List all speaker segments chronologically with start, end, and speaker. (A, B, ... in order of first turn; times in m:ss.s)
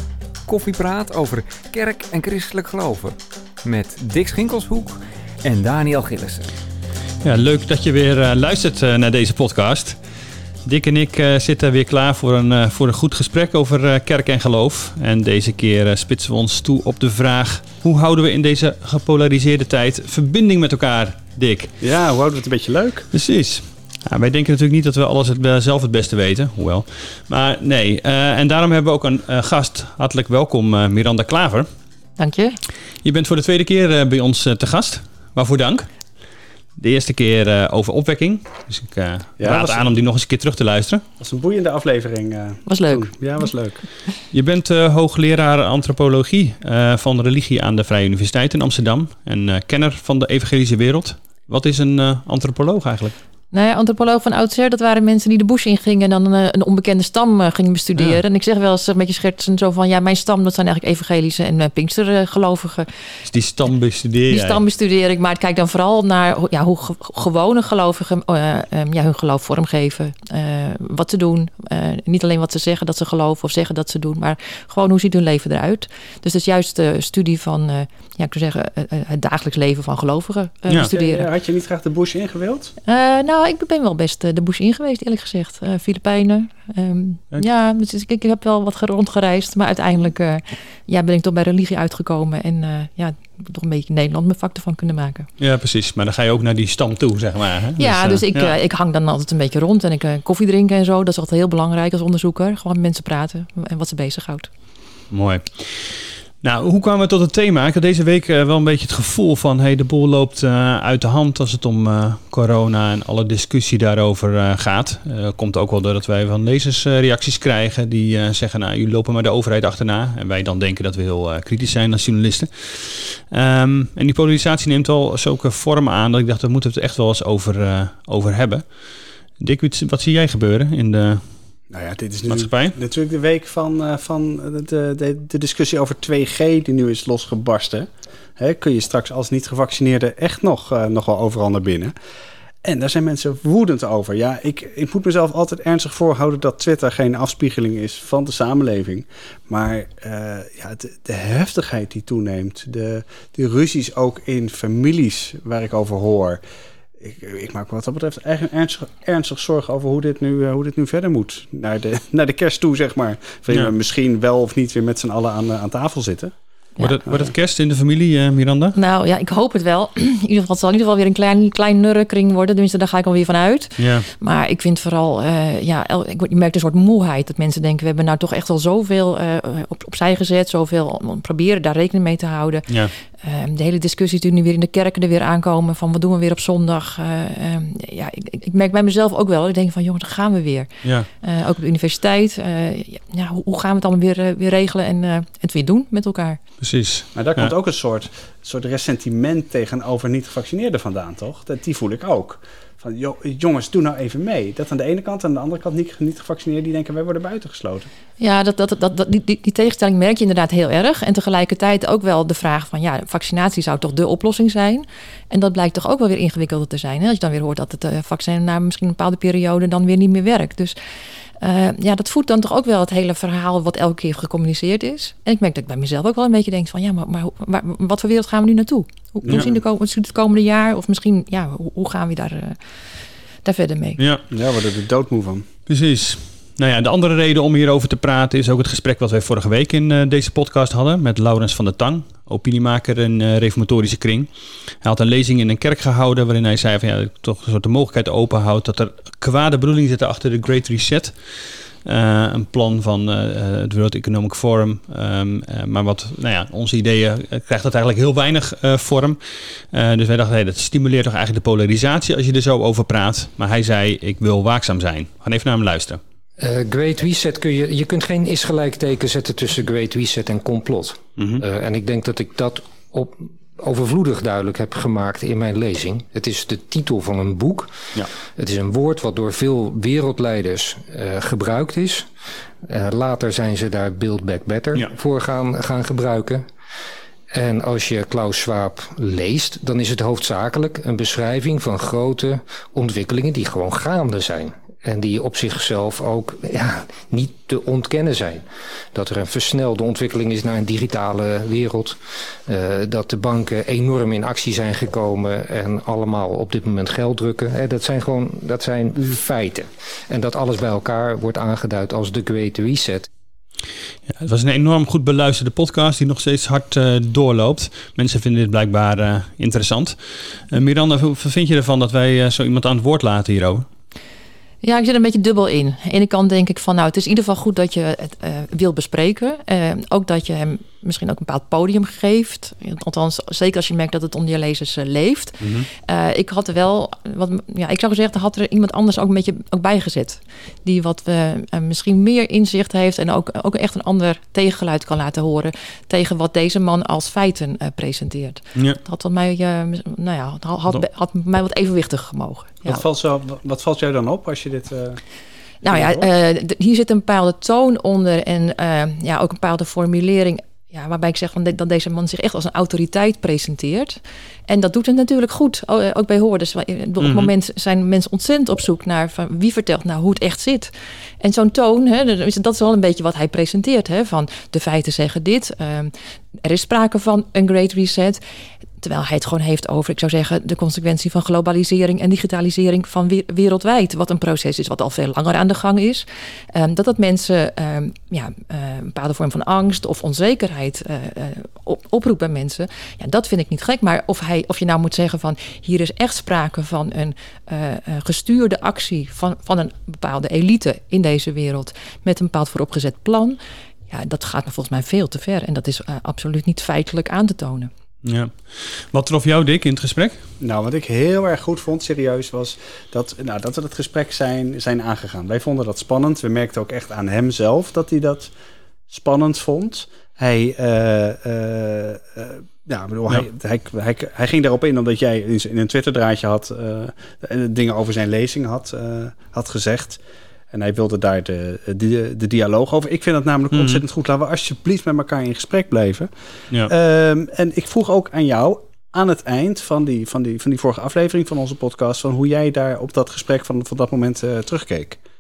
0:00.5-0:06.5 A
0:07.2-0:10.0 B
0:10.6-0:21.8 B
0:21.8-0:23.1 C
0:23.1-0:31.7 B
0:32.2-0:32.6 D
0:33.0-0:35.9 B
0:36.8-0:41.0 B
0:39.4-0:39.8 C
0:41.2-0:43.8 C
0:42.7-0:43.1 D
0:44.3-0:53.2 B
0:53.5-1:02.9 D
1:03.2-1:04.6 B
1:04.3-1:21.3 D
1:20.9-1:22.7 C
1:22.9-1:35.3 D
1:35.4-1:38.5 B
1:37.8-1:44.5 D
1:45.1-2:08.6 B
2:09.4-2:11.2 B
2:11.7-2:21.9 C
2:12.3-2:12.8 B
2:22.6-2:36.4 C
2:37.0-2:46.4 C
2:46.8-2:48.8 B
2:47.1-2:47.3 C
2:48.8-3:16.4 D
2:53.8-2:54.1 B
3:16.6-3:17.5 B
3:17.2-3:27.9 C
3:28.2-3:40.8 D
3:41.4-3:52.6 D
3:49.2-3:49.6 C
3:53.4-3:54.0 D
3:54.0-3:54.2 B
3:54.3-3:55.5 C
3:55.7-4:04.3 B
4:04.8-4:11.1 B
4:11.8-4:19.2 B
4:19.7-4:26.0 B
4:26.4-4:42.1 E
4:31.2-4:31.4 B
4:42.6-4:46.5 E
4:47.3-5:13.1 E
5:14.1-5:20.0 B
5:20.5-5:23.6 B
5:24.6-5:52.8 D
5:35.4-5:35.7 B
5:52.6-5:55.0 C
5:55.6-6:15.9 D
5:55.7-5:56.1 C
6:07.0-6:07.3 B
6:16.4-6:18.2 D
6:18.8-6:43.4 D
6:43.9-6:47.7 D
6:48.0-6:50.2 B
6:50.4-6:58.3 C
6:58.9-7:10.0 C
7:10.5-7:16.1 C
7:13.5-7:13.8 B
7:16.6-7:25.0 C